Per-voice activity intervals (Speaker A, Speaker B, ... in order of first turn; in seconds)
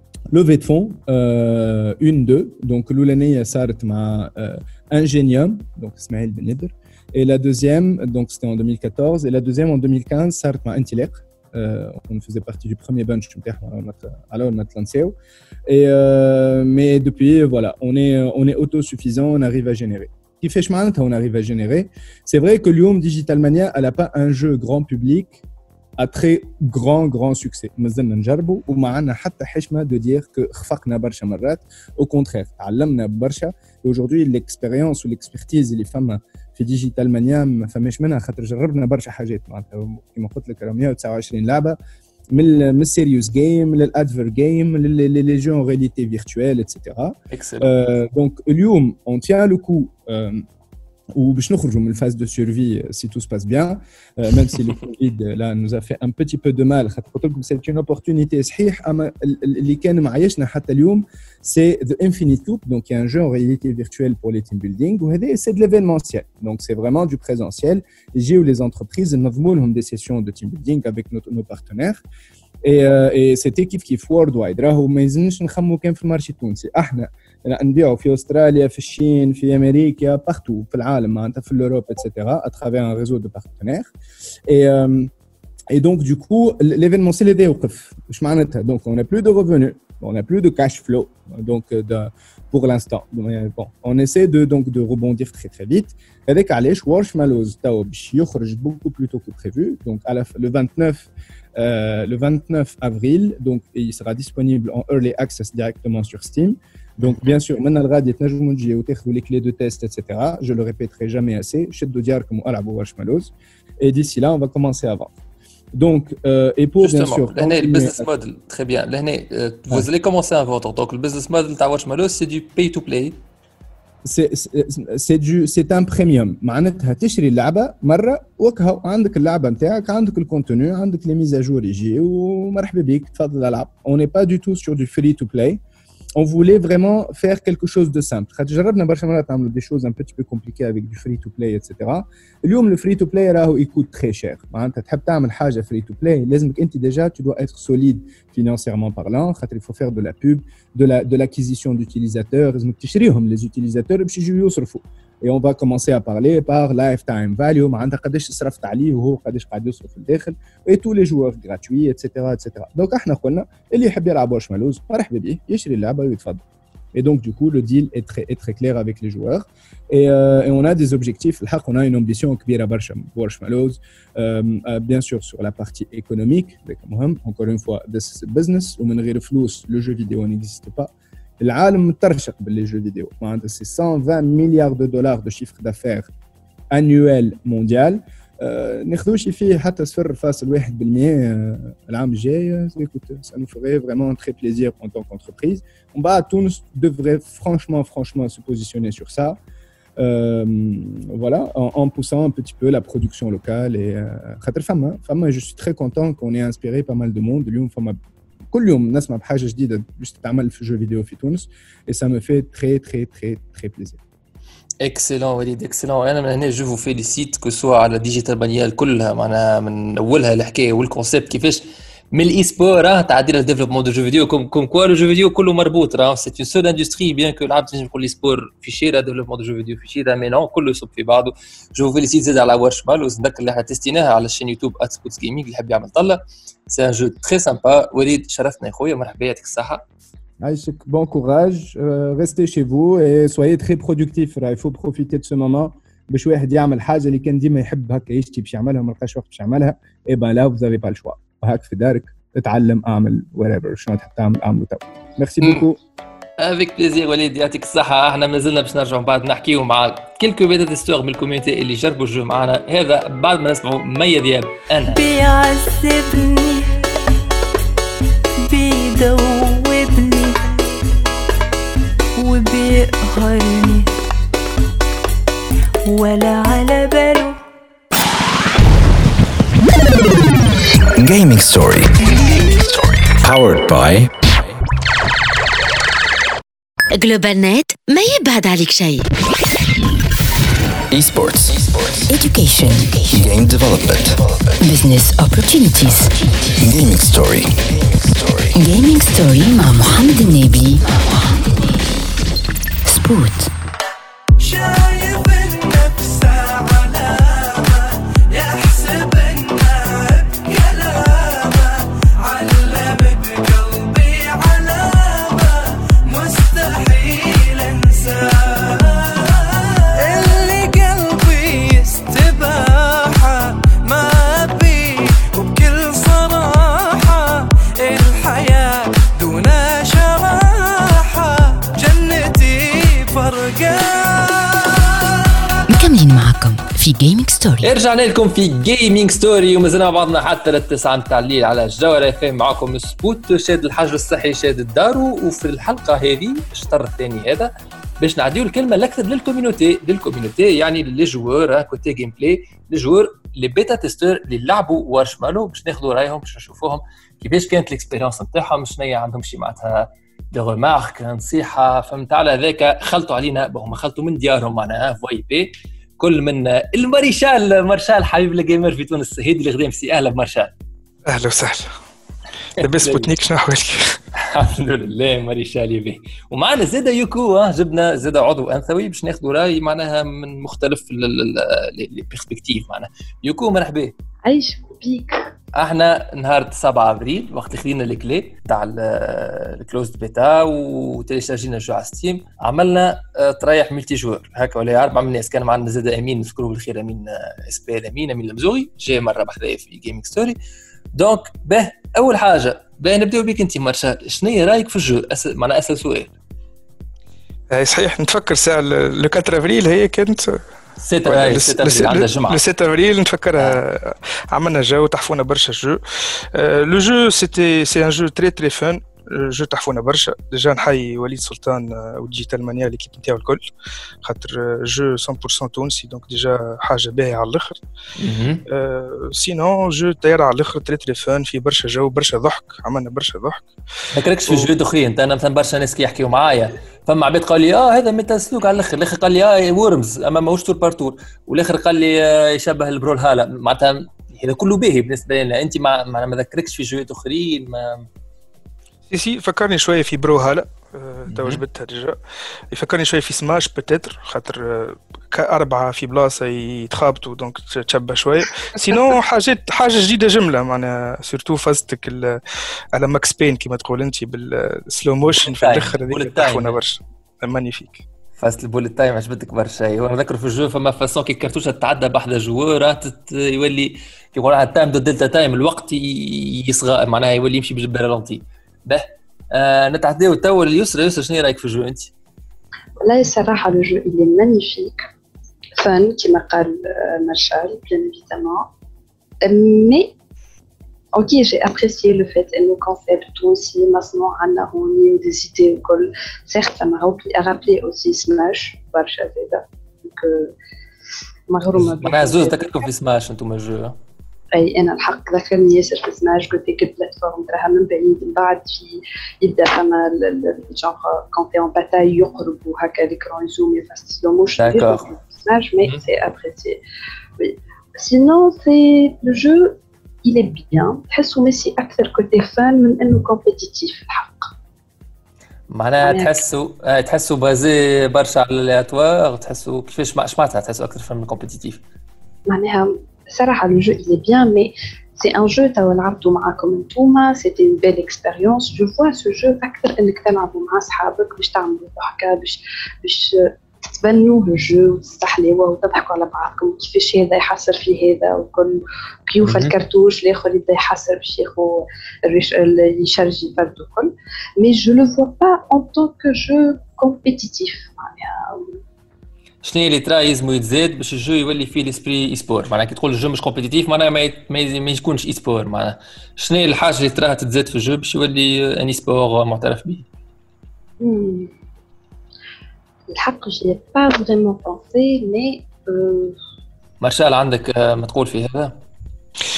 Speaker A: 0.3-15.2, 15.7-25.4, 26.0-41.8, 42.3-50.5, 51.1-72.0, 72.6-83.9, 84.5-85.1, 85.7-115.2, 115.7-118.1, 124.0-135.6, 136.2-186.1, 186.7-199.4, 200.0-208.0, 208.5-214.0, 240.4-255.8
Speaker B: 47.3-47.7, 107.0-107.4, 116.8-123.2, 214.8-239.8, 256.4-265.0, 337.6-370.5, 372.6-373.1, 374.2-383.9, 385.5-400.4, 400.9-406.1, 410.8-412.4, 428.0-428.4, 433.9-447.9, 451.1-451.4, 465.1-466.6, 468.2-481.9, 501.5-503.8, 514.4-514.9, 525.5-531.6, 549.2-549.6, 559.4-569.9, 576.8-578.6
Speaker C: 264.9-266.7, 268.4-270.6, 272.2-273.9, 275.9-277.4
Speaker D: 281.0-281.9, 282.6-284.1, 290.9-292.1, 293.1-294.6, 296.6-298.6
Speaker E: 286.9-289.1
Speaker F: 292.1-293.1, 294.6-296.1, 298.5-301.1, 302.9-303.5, 335.7-337.7
Speaker G: 371.1-371.7, 372.6-374.0, 407.5-410.4, 411.1-415.8, 416.3-423.5, 424.0-427.6, 428.5-433.5, 448.9-452.0, 452.5-462.2, 462.8-467.8
Speaker H: 384.2-385.2, 482.8-484.9, 485.6-488.5, 489.2-489.9, 490.9-500.3, 501.3-502.6, 504.4-516.6, 517.2-524.3, 525.8-526.2, 532.3-558.4, 570.8-571.3, 572.9-576.2